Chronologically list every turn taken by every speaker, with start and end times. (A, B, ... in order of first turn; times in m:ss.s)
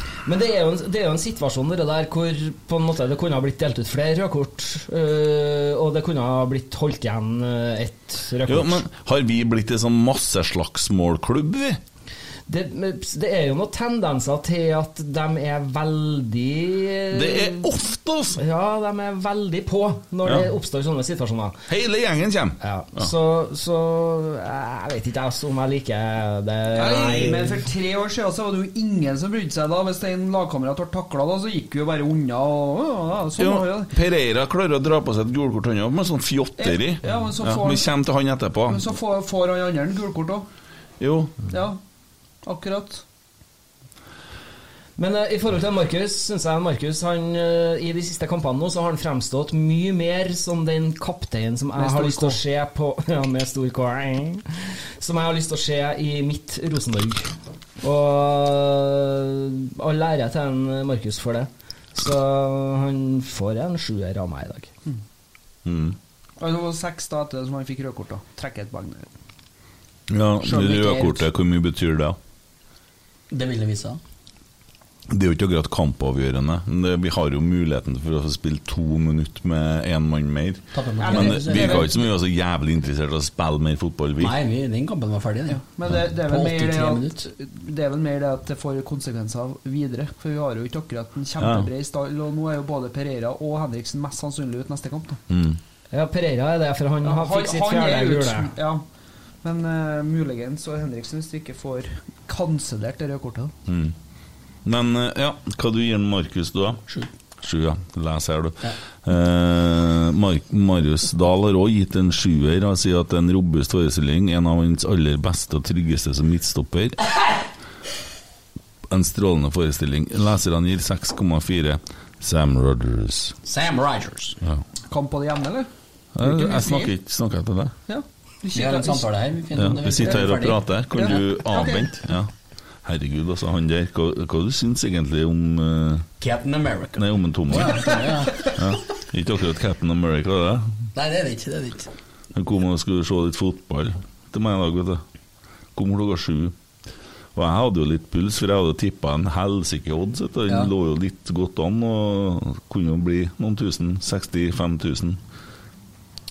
0:00.2-0:08.8 A
0:08.5-0:11.8 B
0:12.5-0:17.7 A
0:17.1-0:18.4 B
0:18.4-0:21.6 A
0:21.7-0:23.1 B
0:22.6-0:27.6 A
0:26.7-0:33.9 C
0:33.4-0:38.8 B
0:36.6-0:37.8 C
0:38.7-0:40.4 C
0:41.0-0:41.3 B
0:41.5-0:41.8 C
0:42.4-0:43.0 C
0:45.0-0:54.4 A
0:51.8-0:52.4 C
0:55.0-0:57.3 A
0:57.8-1:04.7 A
1:05.6-1:06.0 B
1:06.4-1:09.1 C
1:10.1-1:12.2 B
1:10.4-1:11.2 C
1:13.3-1:14.0 D
1:15.1-1:24.3 B
1:20.7-1:22.0 D
1:21.0-1:21.9 C
1:24.2-1:27.3 D
1:25.5-1:35.2 C
1:31.4-1:31.7 B
1:35.3-1:35.6 B
1:35.9-1:38.5 A
1:37.0-1:38.8 C
1:39.4-1:43.5 C
1:43.7-1:43.9 B
1:44.6-1:46.8 B
1:47.4-1:57.0 B
1:58.9-2:03.4 B
2:03.4-2:04.4 D
2:04.9-2:05.7 C
2:06.2-2:07.7 B
2:06.2-2:06.9 C
2:07.9-2:09.1 C
2:08.5-2:10.6 D
2:09.6-2:12.3 B
2:10.9-2:11.9 C
2:12.8-2:16.0 B
2:16.2-2:18.5 D
2:17.0-2:18.0 B
2:17.6-2:18.5 C
2:18.6-2:20.7 B
2:20.9-2:21.9 D
2:22.3-2:25.0 B
2:25.7-2:26.5 B
2:27.3-2:35.2 B
2:30.5-2:30.7 D